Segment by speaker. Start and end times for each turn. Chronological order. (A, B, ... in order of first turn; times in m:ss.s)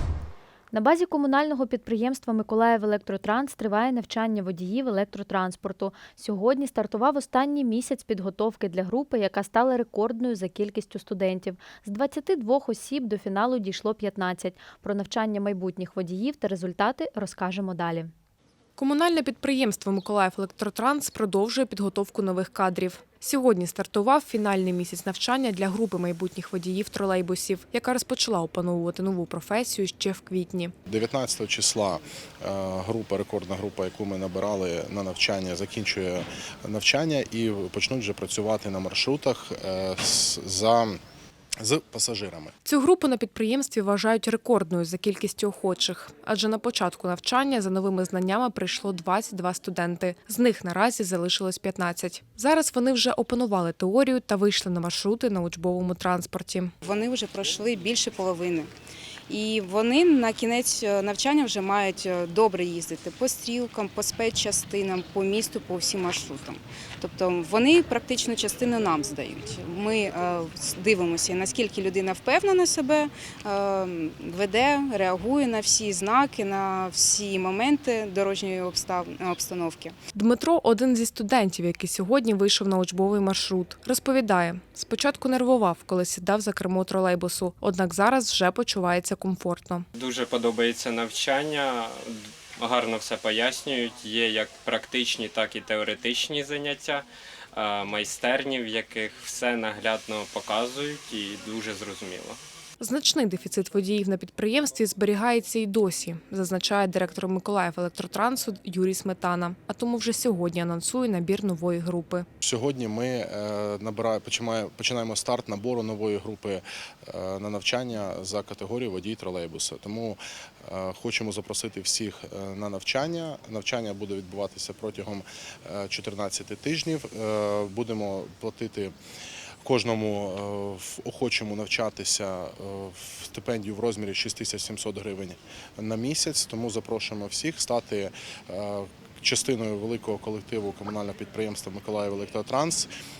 0:00.7-0:18.1 A
0:18.8-0:30.7 B
0:30.9-0:41.0 C
0:41.6-0:42.5 C
0:42.6-0:56.7 B
0:56.8-0:58.7 D
0:59.3-1:19.9 D
1:20.1-1:29.9 B
1:30.0-1:42.4 E
1:42.8-1:52.3 B
1:52.4-2:08.9 C
2:09.6-2:22.9 C